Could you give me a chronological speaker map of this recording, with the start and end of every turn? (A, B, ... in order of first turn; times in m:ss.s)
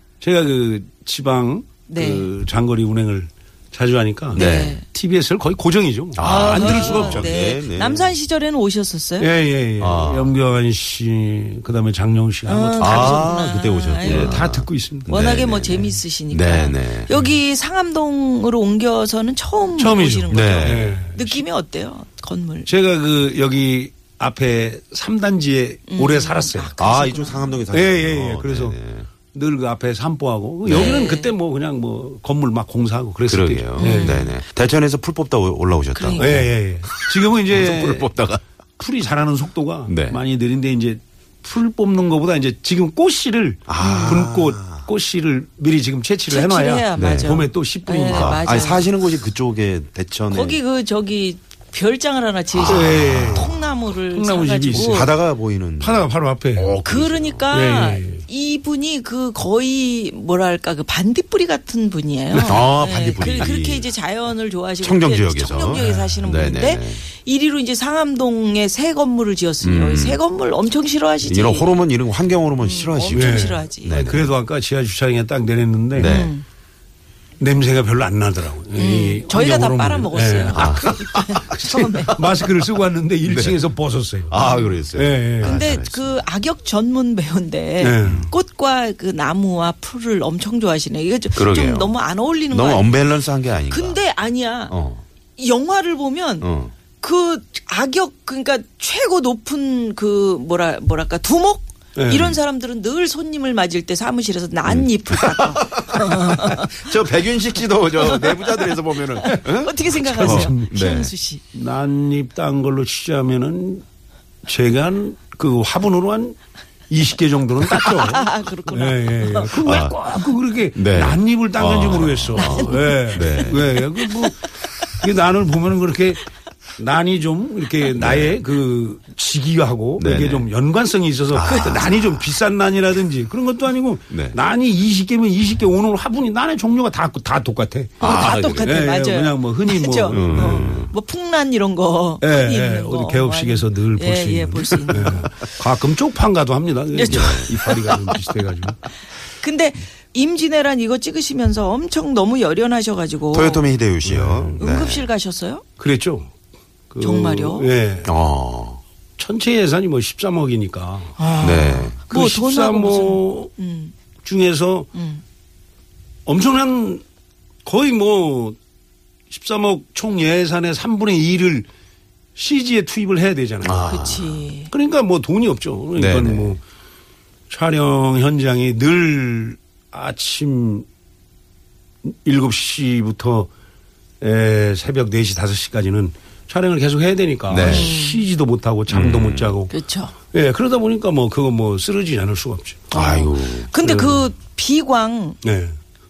0:00.2-0:07.4 A
0:01.9-0:02.3 B
0:04.3-0:04.8 B
0:04.3-0:04.8 C
0:06.1-0:08.2 C
0:06.2-0:09.3 B
0:09.2-0:13.3 A
0:09.8-0:10.3 C
0:12.4-0:14.5 B
0:12.8-0:17.1 C
0:14.0-0:15.1 A
0:15.1-0:22.7 B
0:19.8-0:21.4 A
0:20.3-0:20.9 C
0:22.7-0:26.7 A
0:25.9-0:27.6 B
0:26.8-0:29.1 C
0:27.7-0:28.8 A
0:29.3-0:33.7 A
0:30.6-0:31.1 C
0:30.7-0:31.4 B
0:33.3-0:38.4 C
0:33.8-0:34.3 B
0:35.9-0:36.4 B
0:36.2-0:38.1 A
0:38.8-0:48.3 A
0:39.9-0:40.2 C
0:43.7-0:44.8 C
0:43.8-0:44.3 B
0:46.3-0:48.9 B
0:47.0-0:47.4 C
0:48.0-0:50.6 C
0:50.3-0:55.2 B
0:52.5-0:53.6 C
0:52.6-0:53.4 A
0:54.1-0:55.1 A
0:54.7-0:57.6 C
0:55.8-0:56.7 A
0:56.8-1:11.8 B
0:57.5-0:58.2 A
1:02.3-1:02.6 A
1:02.4-1:03.9 C
1:04.8-1:07.0 C
1:09.6-1:10.2 C
1:11.2-1:14.3 C
1:12.6-1:14.0 B
1:13.1-1:16.1 A
1:15.9-1:16.3 C
1:16.0-1:16.4 B
1:17.4-1:20.7 A
1:18.7-1:22.4 B
1:20.5-1:22.6 C
1:22.1-1:24.3 A
1:23.2-1:23.7 C
1:24.3-1:26.2 C
1:24.4-1:24.7 B
1:24.9-1:25.5 A
1:25.4-1:33.0 B
1:27.8-1:28.2 A
1:31.3-1:32.0 C
1:32.5-1:34.0 C
1:33.7-1:34.7 B
1:34.7-1:35.0 C
1:35.4-1:47.0 B
1:36.4-1:36.7 C
1:42.0-1:42.3 A
1:44.6-1:51.1 C
1:47.9-1:51.4 B
1:50.4-1:50.7 A
1:51.5-1:53.8 A
1:54.4-1:56.4 A
1:56.9-2:04.3 A
1:57.8-1:59.7 B
1:59.6-2:00.0 C
2:00.7-2:03.9 C
2:02.3-2:04.3 B
2:05.0-2:06.2 A
2:06.8-2:18.0 A
2:07.9-2:08.4 C
2:10.0-2:10.5 C
2:11.3-2:12.2 C
2:11.4-2:12.0 B
2:14.1-2:14.4 C
2:18.0-2:18.8 C
2:18.0-2:25.3 B
2:18.6-2:20.5 A
2:20.1-2:20.9 C
2:22.2-2:28.8 A
2:26.9-2:27.7 B
2:27.1-2:28.2 C
2:29.4-2:33.7 B
2:33.3-2:35.1 C
2:34.0-2:34.6 A
2:34.6-2:35.6 B
2:35.8-2:36.3 A
2:36.9-2:38.1 A
2:37.0-2:37.7 B
2:38.0-2:38.8 C
2:39.2-2:41.2 A
2:41.2-2:43.9 B
2:41.4-2:42.0 C
2:42.1-2:43.5 A
2:44.2-2:44.9 A
2:44.9-2:45.2 B
2:46.2-2:47.0 A
2:47.6-2:48.6 A
2:49.3-2:51.7 A
2:52.3-2:53.8 A
2:53.6-2:54.4 C
2:53.8-2:54.7 B
2:54.7-2:56.6 A
2:55.9-2:56.6 C
2:57.5-3:00.8 A
3:02.0-3:03.5 A
3:04.2-3:09.7 A
3:07.5-3:08.0 C
3:07.6-3:08.2 B
3:08.9-3:09.5 C
3:09.7-3:10.1 B
3:10.3-3:12.9 A
3:12.9-3:15.4 B
3:12.9-3:13.7 C
3:13.8-3:14.2 A
3:15.4-3:15.8 A